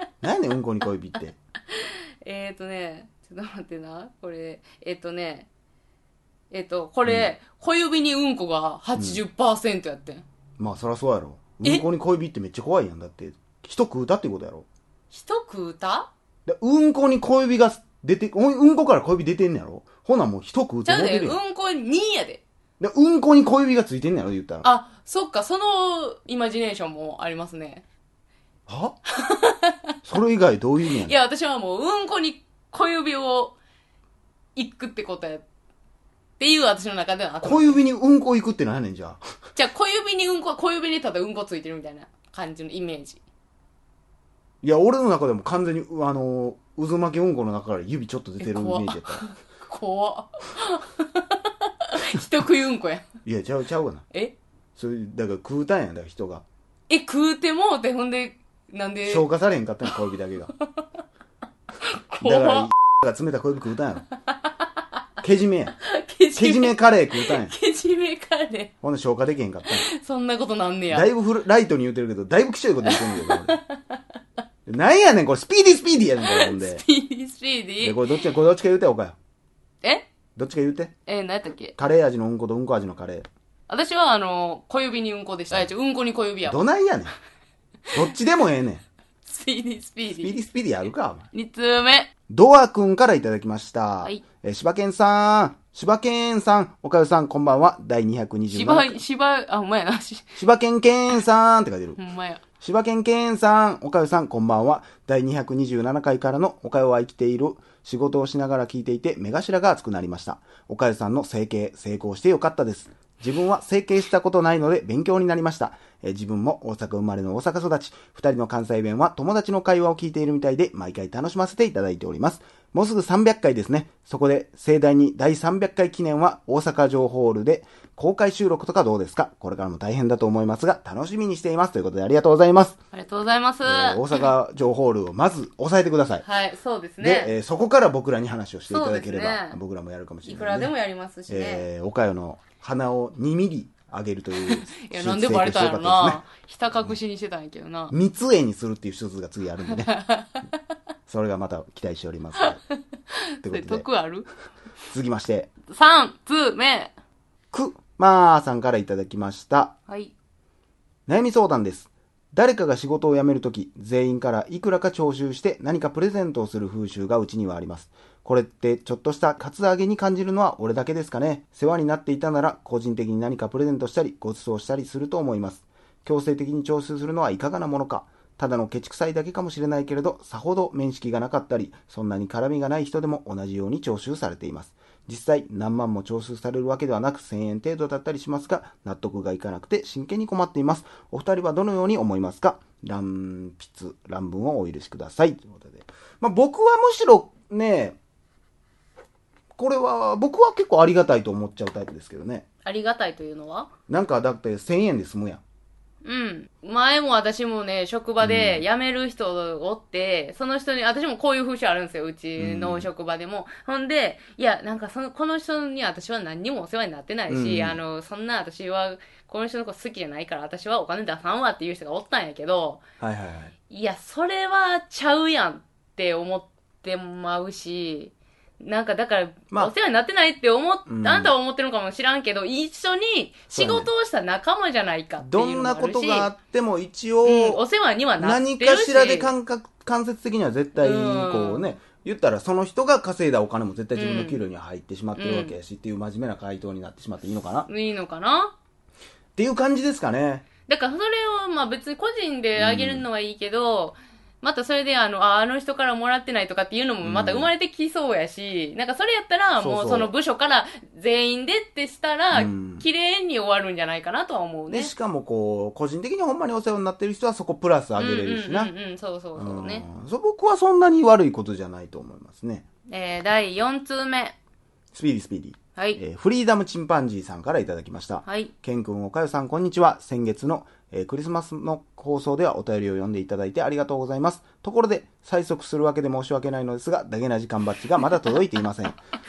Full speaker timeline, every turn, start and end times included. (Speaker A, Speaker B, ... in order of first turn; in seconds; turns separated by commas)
Speaker A: 0.2-1.4, Speaker B: 1.7-5.5, Speaker B: 6.5-10.2, Speaker A: 7.0-7.3, Speaker A: 9.0-9.2, Speaker A: 10.6-14.7, Speaker B: 15.1-16.1, Speaker A: 16.4-21.4, Speaker B: 20.8-22.4, Speaker A: 22.8-24.7, Speaker B: 24.6-27.8, Speaker A: 28.7-29.0, Speaker B: 29.1-29.9, Speaker A: 30.0-31.1, Speaker B: 31.0-33.5, Speaker B: 34.5-35.4, Speaker B: 36.4-37.8, Speaker A: 37.4-39.2, Speaker B: 39.5-43.2, Speaker A: 44.6-49.2, Speaker B: 48.4-53.0, Speaker A: 53.2-54.0, Speaker A: 54.8-56.4, Speaker B: 56.9-59.3, Speaker A: 59.0-60.5, Speaker B: 61.9-62.7, Speaker A: 62.2-64.1, Speaker A: 65.2-65.8, Speaker B: 65.8-68.7, Speaker A: 66.3-67.5, Speaker A: 68.8-69.8, Speaker B: 69.7-71.1, Speaker A: 70.9-73.6, Speaker B: 72.8-74.0, Speaker A: 74.7-76.8, Speaker B: 76.2-78.0, Speaker A: 77.8-79.2, Speaker B: 79.8-80.1, Speaker A: 80.3-80.9, Speaker B: 81.0-81.8, Speaker A: 81.8-83.3, Speaker B: 83.7-86.6, Speaker A: 86.4-87.1, Speaker A: 87.9-88.8, Speaker B: 89.2-90.3, Speaker A: 90.2-91.3, Speaker B: 91.3-92.1, Speaker A: 92.3-99.0, Speaker B: 98.5-100.4, Speaker A: 100.4-102.0, Speaker B: 102.0-102.4, Speaker A: 102.6-132.8, Speaker B: 132.9-134.3, Speaker A: 133.6-136.2, Speaker B: 136.2-137.3, Speaker A: 137.0-140.7, Speaker B: 138.7-139.6, Speaker B: 140.2-141.7, Speaker A: 141.3-146.2, Speaker B: 144.4-147.9, Speaker A: 147.9-149.9, Speaker B: 149.7-150.6, Speaker A: 151.1-152.6, Speaker B: 152.4-154.3, Speaker A: 153.4-153.8, Speaker A: 154.9-155.5, Speaker B: 155.7-156.9, Speaker A: 157.5-159.8, Speaker B: 159.9-160.1, Speaker A: 161.1-198.0, Speaker A: 199.6-202.4, Speaker B: 202.6-203.7, Speaker A: 203.9-205.4, Speaker B: 206.0-222.8, Speaker A: 208.2-208.6, Speaker A: 212.4-212.9, Speaker A: 217.3-217.8, Speaker A: 223.0-223.5, Speaker B: 223.7-236.3, Speaker A: 230.9-231.3, Speaker A: 233.5-233.9, Speaker A: 235.2-237.6, Speaker B: 237.2-239.3, Speaker A: 238.2-247.7, Speaker B: 240.8-241.7, Speaker B: 243.9-244.4, Speaker B: 245.2-245.5, Speaker B: 247.7-248.5, Speaker A: 249.3-250.4, Speaker B: 250.7-264.9, Speaker A: 252.5-253.1, Speaker A: 257.0-257.5, Speaker A: 259.6-260.1, Speaker A: 262.3-262.9, Speaker A: 264.7-268.7, Speaker B: 268.0-269.9, Speaker A: 269.4-272.6, Speaker B: 272.9-274.3, Speaker A: 274.9-289.0, Speaker B: 278.2-278.5